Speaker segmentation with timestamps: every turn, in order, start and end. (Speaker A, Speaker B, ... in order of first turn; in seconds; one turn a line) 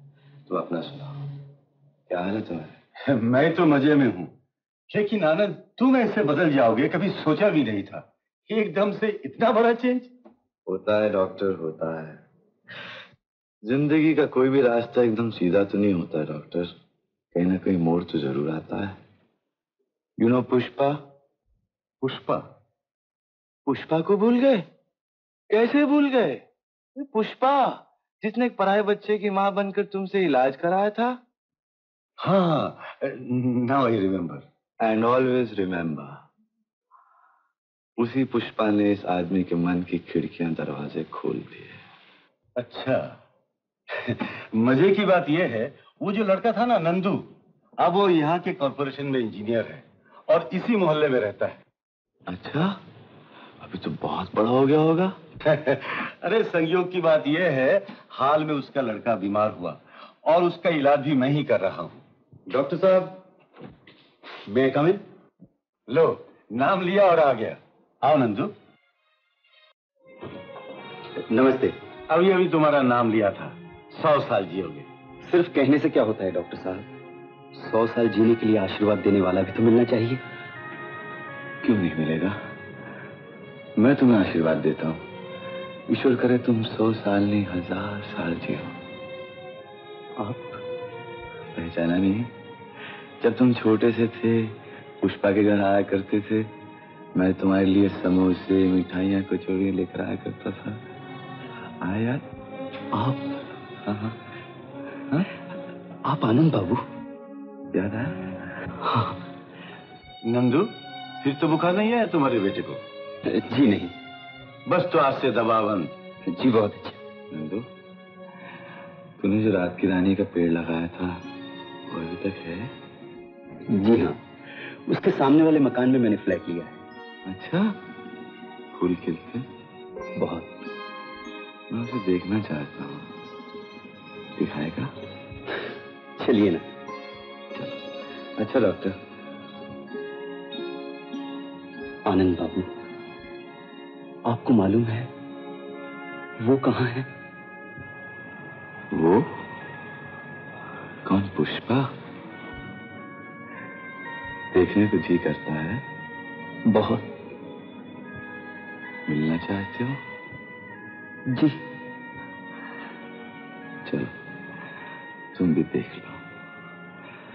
Speaker A: 0.5-1.2
Speaker A: 2.1-2.7
Speaker B: 3.1-4.3
Speaker B: 4.9-10.1
Speaker A: 10.7-12.2
Speaker A: 13.7-16.7
Speaker A: 17.3-19.0
Speaker A: 20.2-21.0
Speaker B: 22.0-22.5
Speaker A: 23.7-24.7
Speaker A: 25.5-26.4
Speaker A: 27.0-31.2
Speaker B: 32.2-34.5
Speaker A: 34.8-36.2
Speaker A: 38.0-41.8
Speaker B: 42.6-43.0
Speaker B: 43.9-47.3
Speaker B: 47.8-51.6
Speaker A: 52.3-52.8
Speaker A: 53.6-55.2
Speaker B: 55.4-63.2
Speaker B: 64.5-65.0
Speaker B: 65.9-68.5
Speaker C: 71.3-71.8
Speaker B: 72.1-74.9
Speaker C: 75.2-76.9
Speaker C: 77.5-80.2
Speaker A: 81.6-82.4
Speaker A: 83.8-85.0
Speaker A: 85.9-88.7
Speaker C: 90.2-90.5
Speaker A: 91.5-92.3
Speaker A: 93.2-96.5
Speaker A: 97.2-100.8
Speaker A: 101.8-102.2
Speaker A: 103.8-104.2
Speaker C: 106.0-106.8
Speaker A: 107.7-108.3
Speaker B: 110.2-112.8
Speaker C: 113.3-113.9
Speaker B: 114.7-115.9
Speaker C: 116.3-117.0
Speaker A: 117.3-117.7
Speaker A: 119.2-121.2
Speaker A: 121.9-122.7
Speaker C: 123.7-124.2
Speaker C: 124.9-126.8
Speaker A: 127.3-127.8
Speaker A: 128.7-129.4
Speaker C: 130.2-130.5
Speaker A: 131.7-133.1
Speaker A: 134.4-134.9
Speaker C: 136.2-136.7
Speaker A: 138.4-139.0
Speaker C: 142.1-142.7
Speaker C: 144.3-145.1
Speaker C: 146.4-147.1
Speaker A: 148.9-149.3
Speaker A: 151.1-151.9
Speaker A: 154.5-155.8
Speaker C: 156.7-157.1
Speaker A: 159.1-160.0
Speaker C: 161.3-161.6
Speaker A: 163.9-164.1
Speaker A: 165.3-166.2